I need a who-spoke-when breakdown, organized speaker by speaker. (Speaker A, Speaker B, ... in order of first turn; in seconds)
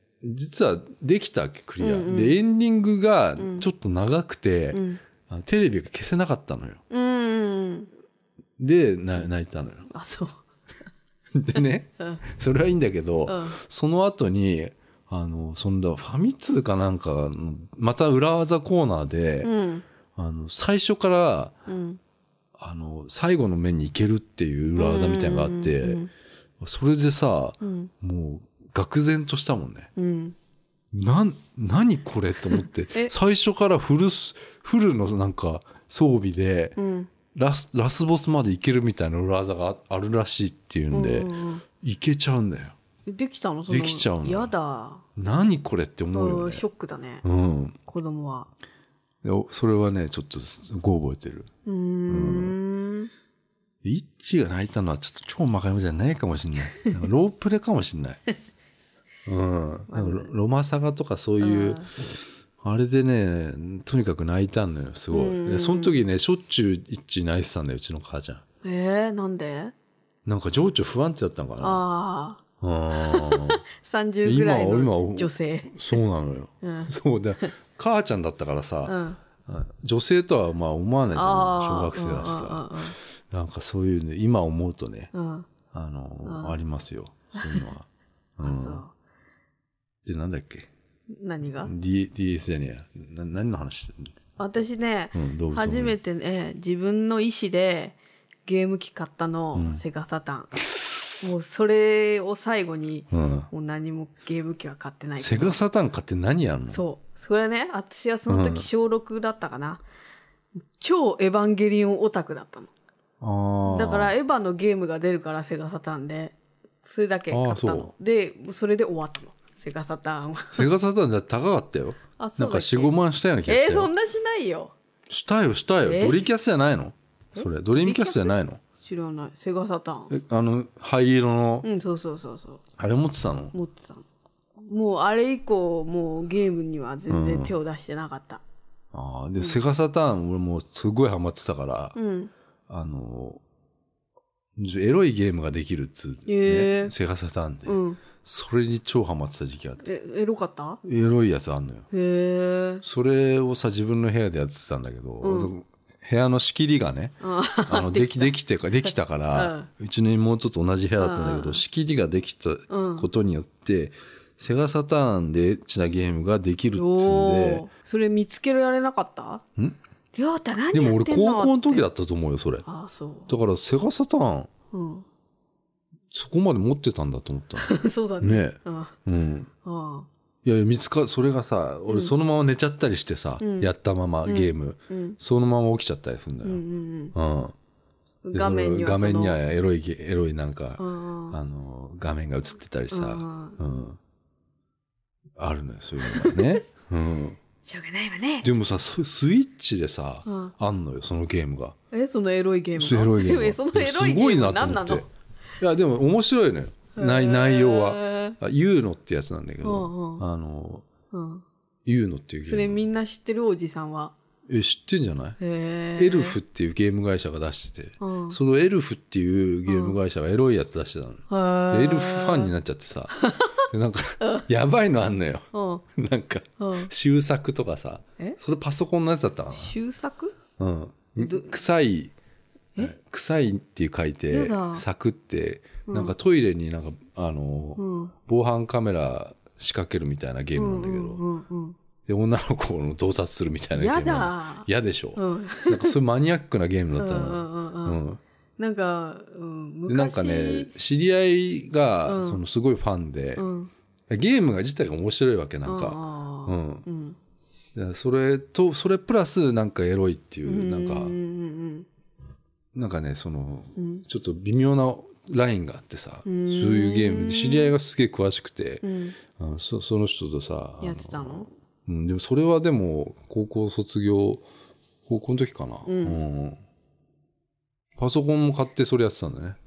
Speaker A: 0.2-6.8, 8.6-9.9, 11.3-19.5, 20.1-21.5, 22.6-26.0, 26.6-29.9, 30.9-36.8, 37.3-42.8, 43.7-44.5, 45.1-46.6, 47.2-47.8, 49.2-51.5, 52.1-52.5, 53.8-58.2, 59.2-68.4, 70.2-71.8, 72.6-73.6, 74.2-85.1, 85.7-88.8, 90.0-90.7, 91.6-94.1, 95.1-96.0, 99.5-99.8, 100.5-101.3, 103.1-103.5, 105.2-106.8, 108.3-108.7, 113.2-114.1, 117.3-117.9, 120.5-123.9, 125.1-128.6, 130.1-131.7, 132.8-133.5, 137.1-137.5, 138.9-141.9, 142.7-143.4, 144.6-149.9, 150.8-151.9, 152.8-167.6, 170.7-172.7, 173.3-174.5, 176.1-179.5, 180.4-186.6, 187.1-187.5, 188.3-194.0, 195.4-197.4, 198.4-201.8, 202.8-205.1, 205.6-210.8, 211.8-212.8, 214.5-215.4, 216.0-229.7, 230.6-232.1, 232.8-241.2, 242.0-248.2, 249.9-253.4, 254.1-256.9, 257.7-261.1, 262.7-274.4, 275.1-276.6, 278.0-279.6
Speaker B: 1.8-2.4, 3.4-3.6, 4.7-5.0, 6.9-7.9, 9.9-10.4, 11.6-12.2, 13.3-13.6, 19.4-19.8, 21.7-22.0, 24.8-26.1, 27.6-27.9, 29.9-30.4, 36.8-37.1, 40.9-41.6, 43.0-45.0, 46.1-47.2, 47.9-48.5, 51.6-53.1, 59.9-60.3, 61.4-61.9, 65.1-66.0, 68.6-69.7, 71.6-72.4, 72.9-76.0, 76.6-76.9, 78.8-79.2, 81.1-83.0, 85.1-85.5, 86.2-86.5, 87.4-87.7, 88.4-88.9, 91.1-91.7, 94.4-100.5, 101.2-105.6, 106.7-109.8, 110.8-112.7, 113.6-120.7, 122.2-124.7, 125.8-126.2, 127.3-130.1, 131.6-132.6, 133.5-134.1, 134.6-138.4, 141.9-142.3, 146.3-146.9, 147.7-148.0, 149.8-150.8, 151.9-152.8, 155.2-155.5, 157.2-159.7, 161.0-161.6, 162.7-163.1, 166.7-169.4, 170.1-171.8, 172.7-173.3, 174.7-175.1, 177.6-179.0, 179.6-180.1, 183.4-183.7, 184.2-185.2, 186.4-187.1, 188.2-189.4, 190.8-191.4, 192.9-193.6, 196.0-196.6, 197.7-198.5, 200.3-200.5, 201.9-205.1, 206.9-208.4, 209.6-210.2, 211.1-211.4, 212.4-214.1, 215.4-216.4, 218.0-218.4, 219.7-220.0, 221.3-222.5, 223.2-223.6, 225.5-225.8, 226.6-226.9, 229.5-230.3, 231.2-231.5, 234.3-234.8, 235.9-236.1, 237.8-238.1, 240.5-241.8, 243.7-245.9, 247.0-248.0, 248.6-250.7, 252.1-252.4, 253.4-253.7, 255.6-257.2, 260.4-261.9, 263.8-264.0, 266.2-267.7, 268.8-269.1, 270.8-271.5, 275.8-276.2